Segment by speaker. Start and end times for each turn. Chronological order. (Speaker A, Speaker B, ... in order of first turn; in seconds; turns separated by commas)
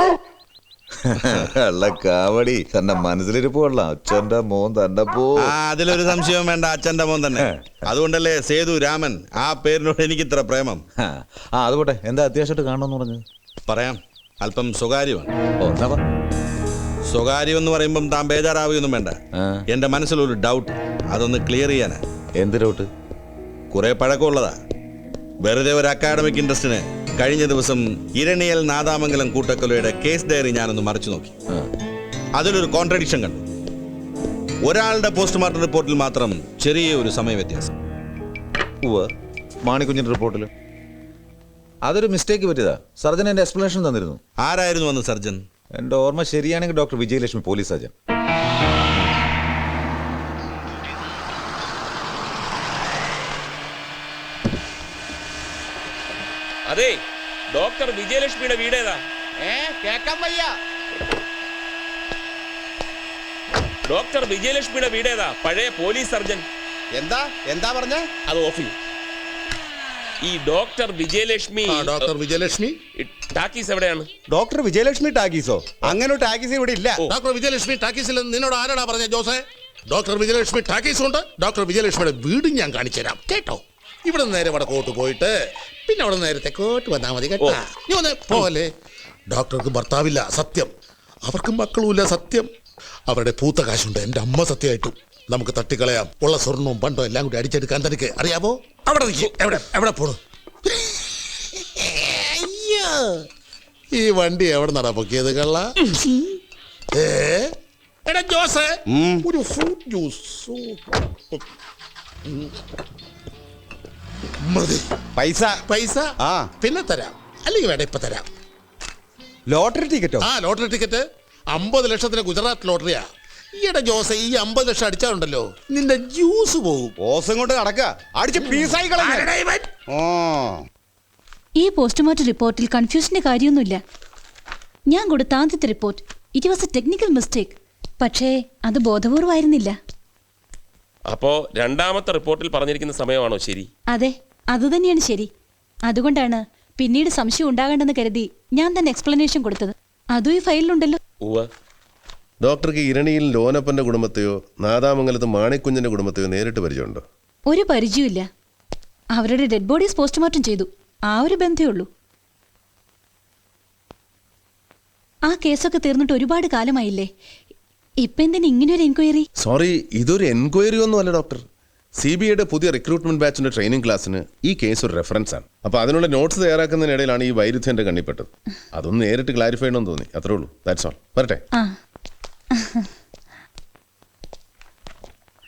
Speaker A: 1.1-5.5, Speaker B: 5.4-10.8, Speaker A: 7.3-7.8, Speaker A: 11.0-13.2, Speaker B: 13.7-15.3, Speaker A: 15.6-16.0, Speaker B: 17.1-22.0, Speaker A: 19.3-19.6, Speaker A: 22.4-22.9, Speaker B: 23.7-24.6, Speaker B: 25.4-31.3, Speaker B: 32.4-33.4, Speaker B: 34.6-37.7, Speaker A: 38.8-39.1, Speaker A: 39.6-40.5, Speaker A: 41.8-44.2, Speaker B: 44.4-45.4, Speaker A: 45.8-47.9, Speaker C: 56.7-57.0, Speaker C: 57.5-59.0, Speaker D: 59.4-60.5, Speaker C: 63.9-66.4, Speaker D: 67.0-68.0, Speaker C: 68.3-68.7, Speaker C: 70.2-72.1, Speaker E: 71.7-72.8, Speaker C: 73.0-74.1, Speaker D: 74.3-77.0, Speaker E: 77.1-85.3, Speaker E: 85.9-88.7, Speaker E: 89.3-90.7, Speaker E: 91.2-92.5, Speaker E: 93.1-100.2, Speaker E: 101.8-103.2, Speaker E: 103.9-105.7, Speaker E: 106.9-107.5, Speaker E: 108.0-110.8, Speaker D: 108.9-109.2, Speaker E: 114.4-114.9, Speaker D: 115.2-115.6, Speaker E: 115.6-118.3, Speaker D: 116.2-116.5, Speaker D: 119.5-120.3, Speaker E: 120.2-126.9, Speaker D: 127.0-129.3, Speaker E: 128.4-129.7, Speaker D: 129.9-130.5, Speaker F: 131.6-133.8, Speaker F: 134.9-139.8, Speaker C: 141.1-143.7, Speaker F: 143.9-145.3, Speaker F: 145.9-151.0, Speaker G: 152.4-157.0, Speaker F: 157.5-158.3, Speaker F: 159.1-161.9, Speaker F: 165.3-167.1, Speaker F: 168.0-169.3, Speaker G: 169.4-171.4, Speaker G: 172.0-181.4, Speaker F: 182.5-182.9